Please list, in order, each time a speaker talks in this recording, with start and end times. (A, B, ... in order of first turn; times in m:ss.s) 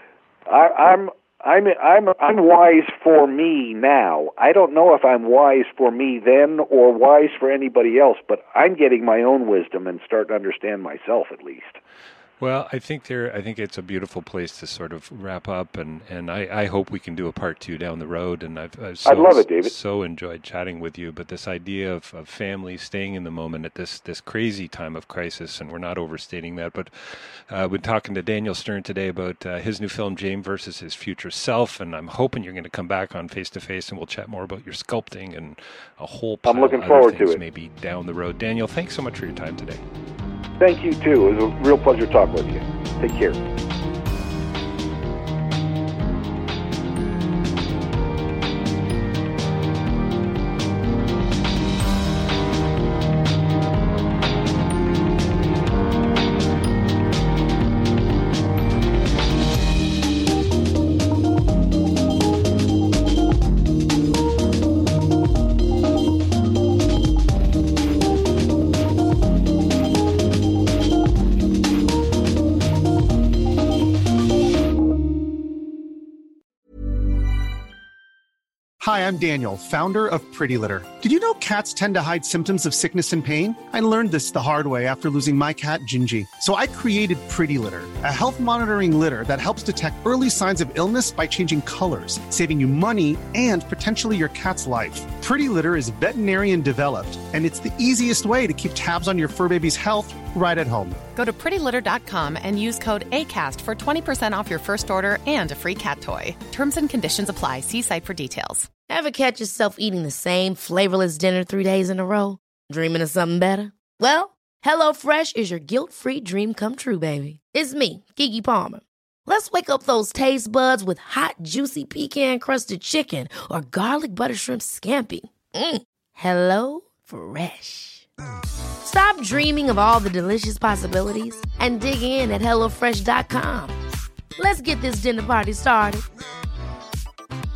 0:00.5-0:11.8 A
0:12.4-0:39.8 B
0:19.0-0:19.7 A
0:36.4-0:37.4 A
0:40.6-0:43.4 A
1:18.8-1:41.0 C
1:41.2-1:48.7 D
1:48.9-2:08.0 E
2:08.8-2:13.7 E
2:14.4-2:16.0 E